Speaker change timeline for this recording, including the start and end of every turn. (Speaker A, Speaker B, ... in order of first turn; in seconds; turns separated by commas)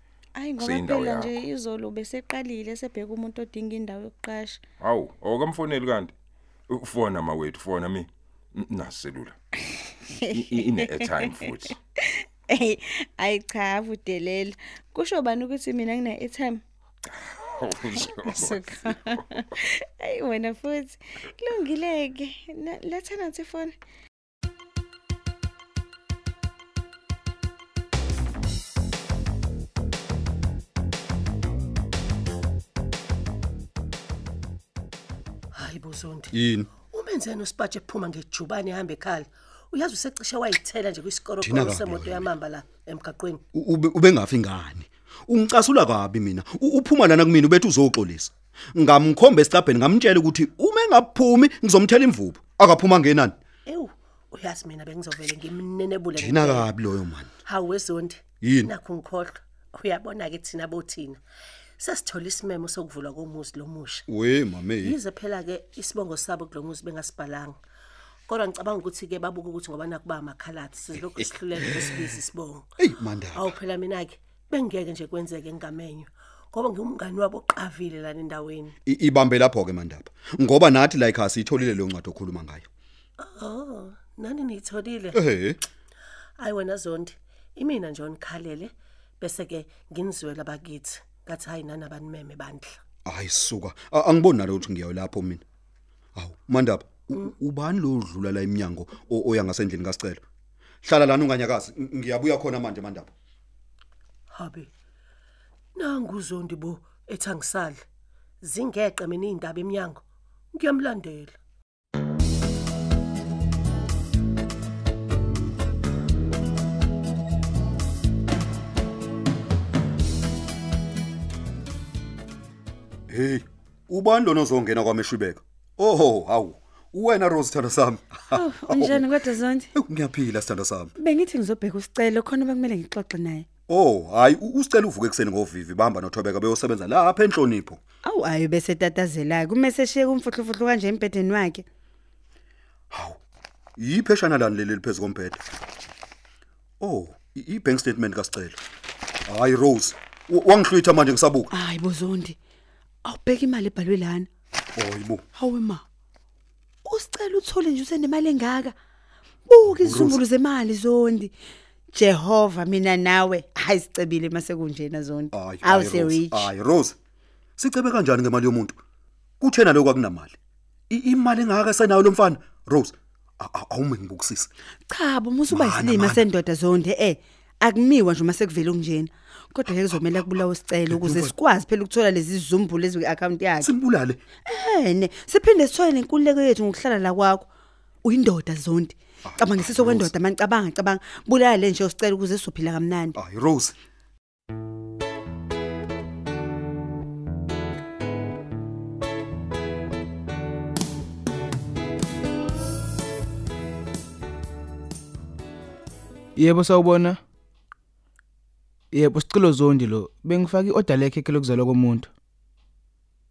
Speaker A: 0.4-4.6, Speaker B: 0.6-1.4, Speaker B: 4.8-6.1, Speaker B: 6.7-9.4, Speaker A: 10.1-11.3, Speaker B: 10.3-11.8, Speaker A: 12.5-16.6, Speaker B: 17.1-19.2, Speaker A: 18.1-23.8, Speaker C: 35.5-43.4, Speaker D: 36.3-36.7, Speaker D: 41.4-42.3, Speaker D: 43.5-53.3, Speaker C: 53.7-56.7, Speaker D: 56.2-57.3, Speaker C: 57.4-61.2, Speaker D: 58.4-58.7, Speaker C: 61.8-64.1, Speaker D: 64.2-65.0, Speaker C: 64.8-67.6, Speaker C: 68.3-72.7, Speaker D: 72.8-73.5, Speaker C: 73.3-78.7, Speaker D: 78.9-82.7, Speaker C: 83.2-85.2, Speaker D: 85.1-85.6, Speaker C: 86.4-92.8, Speaker D: 93.1-95.4, Speaker D: 96.2-100.2, Speaker D: 100.8-103.1, Speaker C: 104.3-104.7, Speaker C: 105.8-107.8, Speaker C: 108.4-110.0, Speaker C: 110.5-111.4, Speaker D: 123.1-129.1, Speaker E: 128.3-129.7, Speaker D: 129.8-130.9, Speaker E: 131.0-133.5, Speaker D: 133.7-137.8, Speaker E: 138.0-141.7, Speaker D: 142.9-143.2, Speaker D: 143.8-145.4, Speaker D: 146.8-148.6, Speaker D: 149.3-151.5, Speaker E: 151.5-152.4, Speaker E: 153.1-154.3, Speaker D: 154.8-155.2, Speaker E: 155.3-155.8, Speaker E: 156.8-158.8, Speaker E: 159.5-161.3, Speaker D: 159.8-160.2, Speaker E: 161.9-166.5, Speaker D: 165.3-167.0, Speaker D: 167.6-168.8, Speaker D: 169.4-170.3, Speaker D: 170.9-174.5, Speaker E: 174.9-183.7, Speaker D: 175.5-176.2, Speaker D: 181.0-181.3, Speaker D: 183.6-184.2, Speaker E: 184.4-187.5, Speaker E: 188.0-193.2, Speaker D: 189.3-190.1, Speaker D: 193.2-193.8, Speaker F: 206.4-207.2, Speaker F: 208.9-212.1